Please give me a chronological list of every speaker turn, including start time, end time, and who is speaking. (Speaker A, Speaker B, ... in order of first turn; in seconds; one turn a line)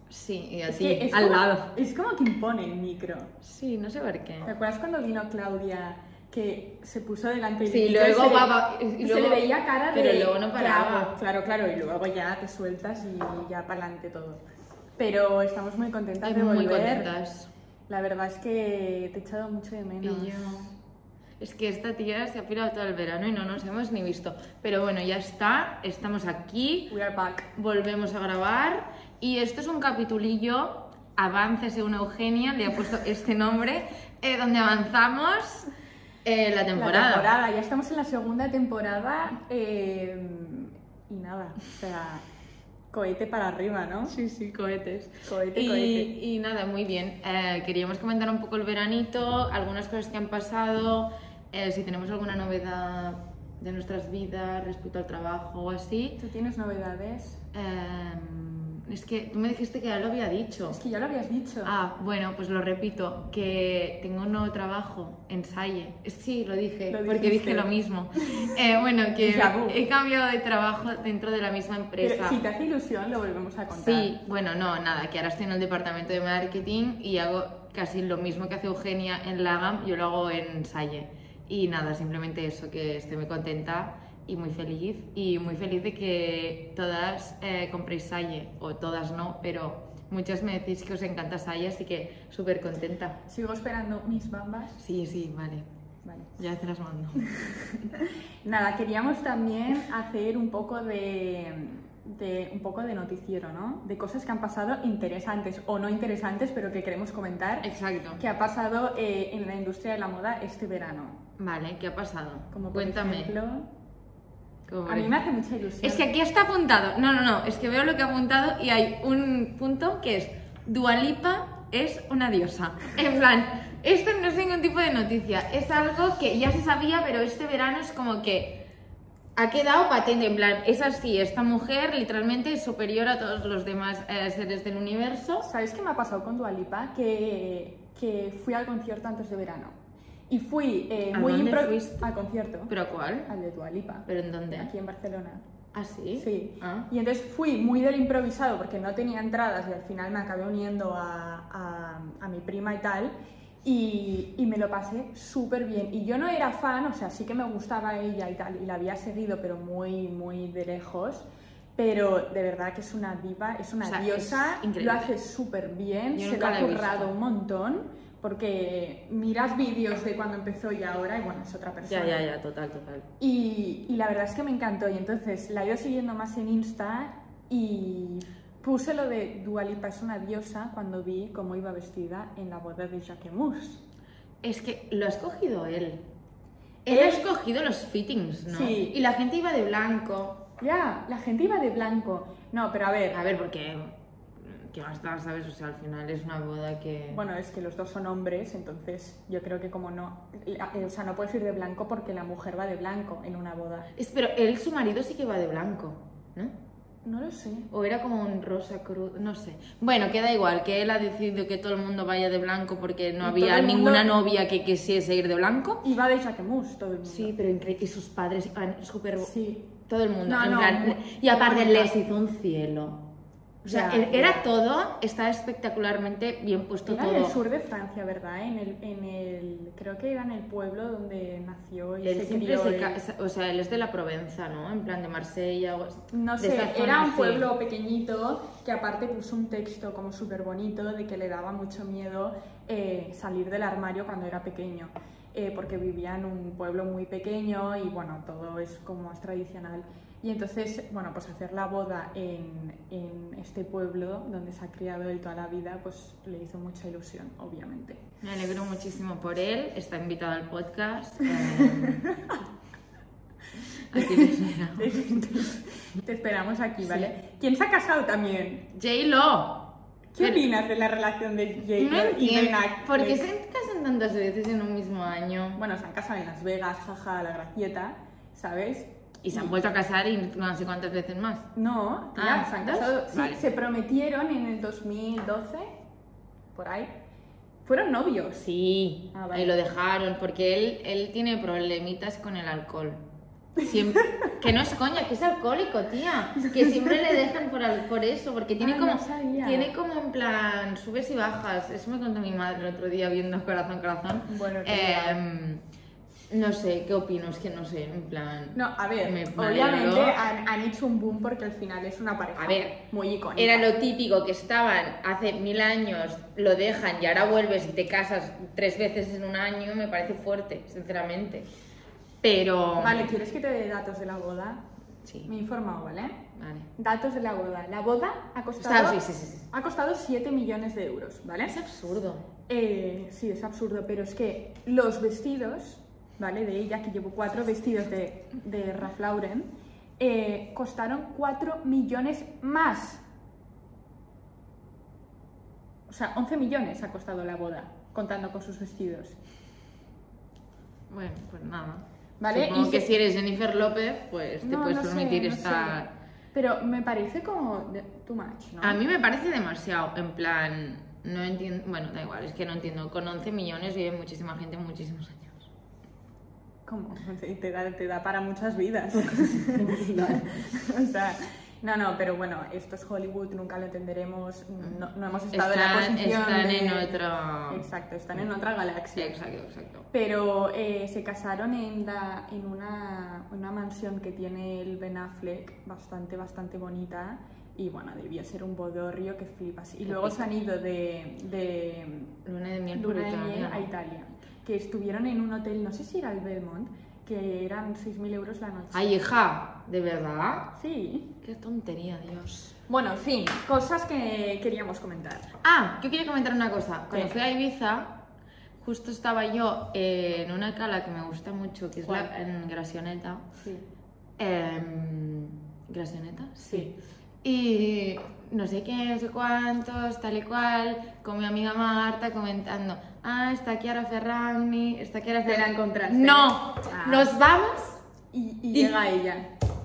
Speaker A: 0.1-1.7
Speaker B: 0.7-3.3
Speaker A: 3.4-4.5
Speaker B: 4.4-14.4
Speaker A: 7.6-11.1
Speaker B: 15.0-17.1
Speaker A: 16.2-17.5
Speaker B: 17.9-20.7
Speaker A: 20.0-20.7
Speaker A: 21.4-26.9
Speaker B: 26.9-27.5
Speaker A: 27.5-35.7
Speaker A: 36.2-37.3
Speaker B: 36.7-42.2
Speaker B: 42.9-44.1
Speaker A: 44.1-56.2
Speaker B: 45.2-46.1
Speaker B: 56.2-57.4
Speaker A: 57.5-60.8
Speaker B: 60.7-61.7
Speaker A: 61.6-72.4
Speaker B: 66.9-68.6
Speaker B: 69.2-69.8
Speaker B: 72.0-74.1
Speaker A: 73.7-93.2
Speaker B: 93.3-94.8
Speaker A: 94.8-95.7
Speaker B: 96.0-96.3
Speaker A: 96.4-97.3
Speaker B: 97.3-111.2
Speaker A: 107.6-108.2
Speaker A: 111.4-113.3
Speaker B: 112.5-113.7
Speaker A: 114.7-115.2
Speaker B: 114.8-116.1
Speaker A: 115.8-128.6
Speaker A: 129.3-135.5
Speaker B: 135.4-139.7
Speaker B: 140.3-142.7
Speaker A: 141.1-142.1
Speaker A: 142.7-143.3
Speaker B: 143.3-145.4
Speaker A: 144.1-144.7
Speaker A: 145.7-146.9
Speaker B: 146.1-172.2
Speaker A: 163.8-165.1
Speaker A: 166.1-167.1
Speaker A: 171.8-173.1
Speaker B: 173.2-183.8
Speaker A: 184.4-186.0
Speaker A: 186.8-190.4
Speaker B: 186.9-187.2
Speaker B: 188.5-188.9
Speaker B: 190.6-193.2
Speaker A: 193.1-197.2
Speaker B: 197.1-203.9
Speaker A: 203.9-206.5
Speaker B: 207.0-207.7
Speaker A: 207.7-215.8
Speaker B: 213.2-214.1
Speaker B: 215.8-217.3
Speaker A: 217.0-219.3
Speaker B: 219.2-219.7
Speaker A: 219.8-223.0
Speaker B: 220.2-221.9
Speaker B: 223.6-224.4
Speaker A: 223.6-227.4
Speaker B: 226.8-233.0
Speaker A: 232.0-237.5
Speaker B: 236.1-258.0
Speaker A: 258.2-262.0
Speaker B: 261.4-262.4
Speaker A: 263.9-265.2
Speaker B: 263.9-268.7
Speaker A: 266.8-267.1
Speaker A: 268.7-270.4
Speaker B: 270.1-273.3
Speaker A: 271.8-275.6
Speaker B: 275.6-279.5
Speaker A: 279.2-281.5
Speaker B: 281.5-285.8
Speaker A: 282.1-283.4
Speaker B: 286.5-286.9
Speaker B: 287.6-288.5
Speaker A: 288.4-293.0
Speaker B: 289.1-289.6
Speaker A: 293.6-305.6
Speaker B: 296.6-296.9
Speaker B: 298.6-299.7
Speaker B: 304.3-305.2
Speaker A: 306.3-310.2
Speaker B: 308.5-313.7
Speaker A: 312.4-312.7
Speaker A: 313.4-321.5
Speaker A: 322.2-323.1
Speaker B: 322.8-324.6
Speaker A: 325.0-325.3
Speaker B: 325.2-326.2
Speaker A: 326.3-326.7
Speaker B: 326.8-331.5
Speaker A: 328.6-329.5
Speaker A: 331.4-332.2
Speaker B: 332.5-343.0
Speaker B: 345.9-349.2
Speaker A: 350.9-355.9
Speaker B: 352.2-352.9
Speaker B: 354.4-355.8
Speaker B: 356.3-358.8
Speaker A: 358.6-365.4
Speaker B: 366.6-376.9
Speaker A: 368.9-370.3
Speaker A: 374.6-377.6
Speaker B: 377.5-379.1
Speaker A: 378.9-379.9
Speaker B: 379.9-392.1
Speaker A: 389.9-390.2
Speaker A: 392.2-393.7
Speaker B: 392.7-399.0
Speaker A: 398.7-400.5
Speaker B: 400.5-401.1
Speaker A: 401.2-402.5
Speaker B: 402.7-405.3
Speaker A: 405.4-407.9
Speaker B: 406.9-407.2
Speaker A: 408.6-413.2
Speaker B: 411.8-412.1
Speaker B: 413.4-413.6
Speaker A: 414.2-416.7
Speaker B: 416.5-416.8
Speaker A: 417.2-427.8
Speaker B: 425.2-427.1
Speaker B: 428.1-429.3